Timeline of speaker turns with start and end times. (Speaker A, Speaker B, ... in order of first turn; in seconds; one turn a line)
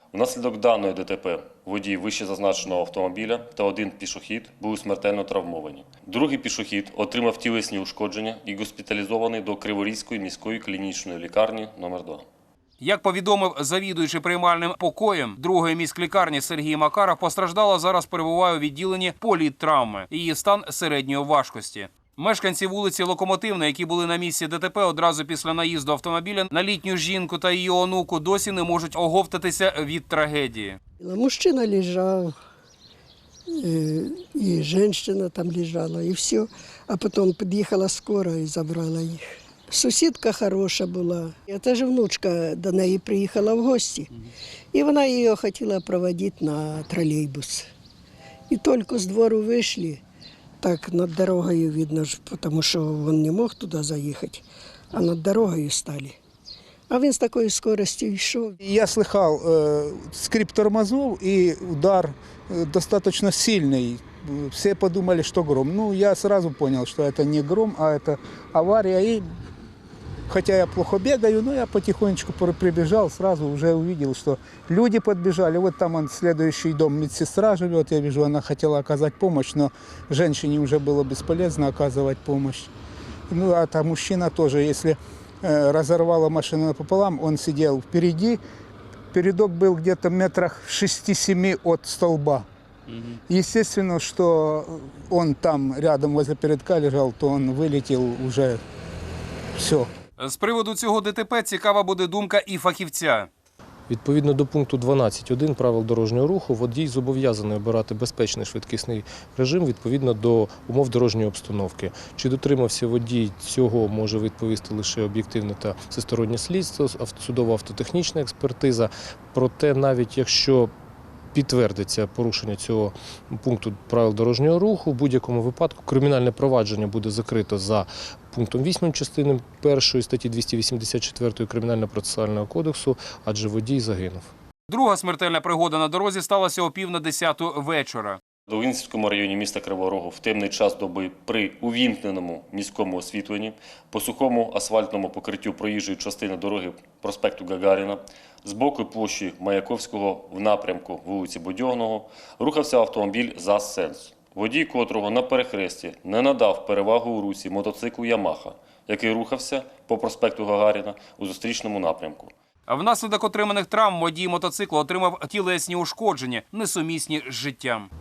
Speaker A: 0.1-12.2
Speaker B: 12.8-30.8
Speaker C: 31.0-32.3
Speaker C: 33.5-44.1
Speaker C: 44.7-47.7
Speaker C: 48.5-50.0
Speaker C: 50.6-56.2
Speaker C: 56.9-58.5
Speaker D: 58.6-69.2
Speaker D: 70.3-82.7
Speaker D: 83.3-88.4
Speaker D: 89.1-92.5
Speaker B: 92.9-93.2
Speaker D: 93.3-98.6
Speaker D: 99.5-99.9
Speaker B: 100.2-103.3
Speaker E: 103.9-120.7
Speaker E: 121.3-134.3
Speaker B: 134.7-138.2
Speaker A: 138.5-162.3
Speaker B: 162.7-167.9